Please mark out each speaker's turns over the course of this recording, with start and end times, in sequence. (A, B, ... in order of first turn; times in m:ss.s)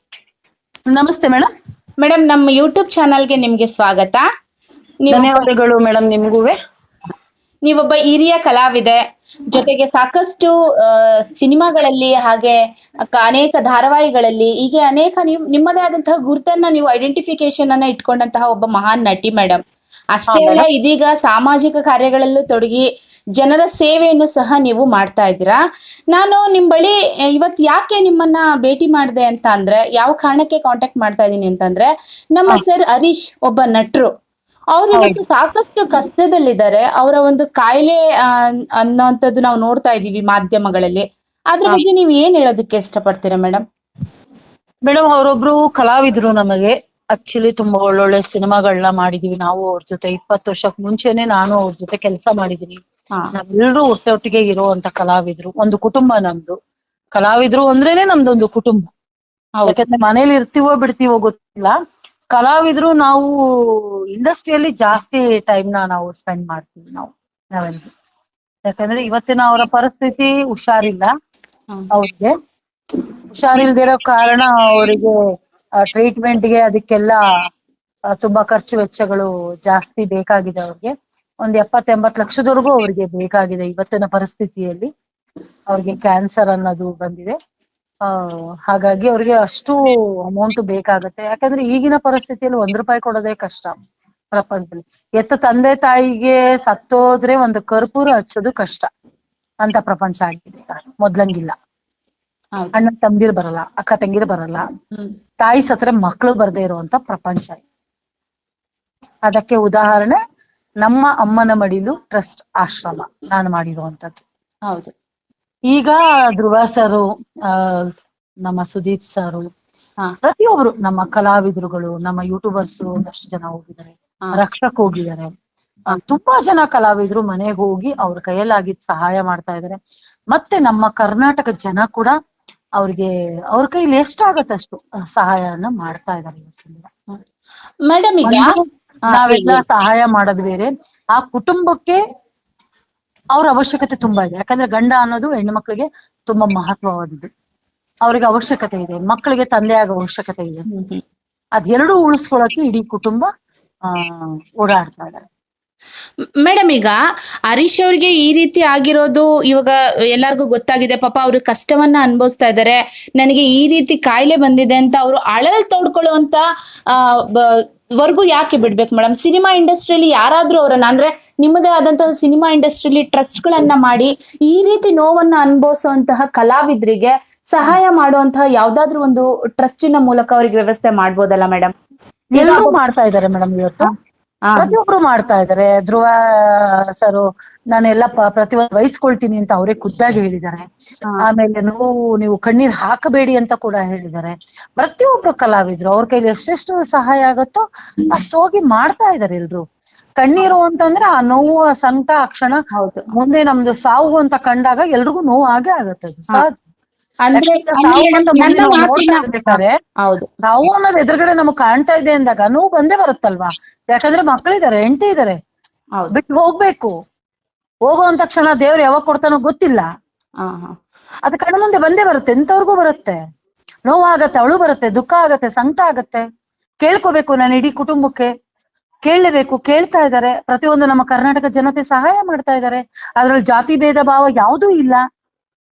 0:00.9-0:01.5 A
0:02.0-0:04.2 B
0:05.0-0:05.5 B
0:05.1-0:06.5 A
0:07.7-0:09.0 B
0:09.5-0:12.6 B
0:13.1-0:19.6 B
0:20.2-0:22.8 B
0:20.3-0:20.7 A
0:23.4-0:25.6 B
0:26.1-0:34.1 B
0:34.8-0:38.0 B
0:38.8-0:43.6 B
0:44.9-0:52.8 A
0:53.3-0:56.6 A
0:57.2-0:58.9 A
0:59.7-1:01.8 A
1:02.3-1:07.9 A
1:08.7-1:11.1 A
1:11.9-1:12.3 A
1:13.3-1:15.2 A
1:15.8-1:17.2 A
1:18.1-1:20.9 A
1:21.4-1:24.9 A
1:25.7-1:27.4 A
1:28.1-1:29.8 A
1:30.3-1:33.7 A
1:34.3-1:38.9 A
1:39.6-1:41.5 A
1:42.7-1:44.6 A
1:45.4-1:47.6 A
1:49.3-1:50.2 A
1:50.8-1:54.2 A
1:55.7-1:57.9 A
1:58.4-1:59.4 A
2:00.2-2:05.3 A
2:05.9-2:09.8 A
2:10.3-2:12.1 A
2:12.8-2:16.9 A
2:17.9-2:18.6 B
2:18.2-2:22.0 A
2:19.1-2:19.6 B
2:23.4-2:27.3 A
2:28.0-2:30.7 A
2:30.7-2:31.0 B
2:31.6-2:33.3 A
2:33.9-2:35.2 A
2:36.4-2:37.0 B
2:37.5-2:46.4 B
2:46.9-3:01.7 B
3:02.4-3:03.9 A
3:02.4-3:02.8 B
3:04.5-3:04.7 B
3:04.6-3:10.6 A
3:11.2-3:19.6 A
3:20.2-3:22.6 A
3:22.7-3:23.0 B
3:23.1-3:26.6 A
3:27.2-3:30.3 B
3:27.4-3:29.8 A
3:30.5-3:35.4 A
3:36.1-3:36.9 A
3:37.9-3:39.8 A
3:40.4-3:40.7 B
3:41.3-3:43.2 A
3:43.9-3:46.2 A
3:46.8-3:48.3 A
3:49.1-3:55.0 A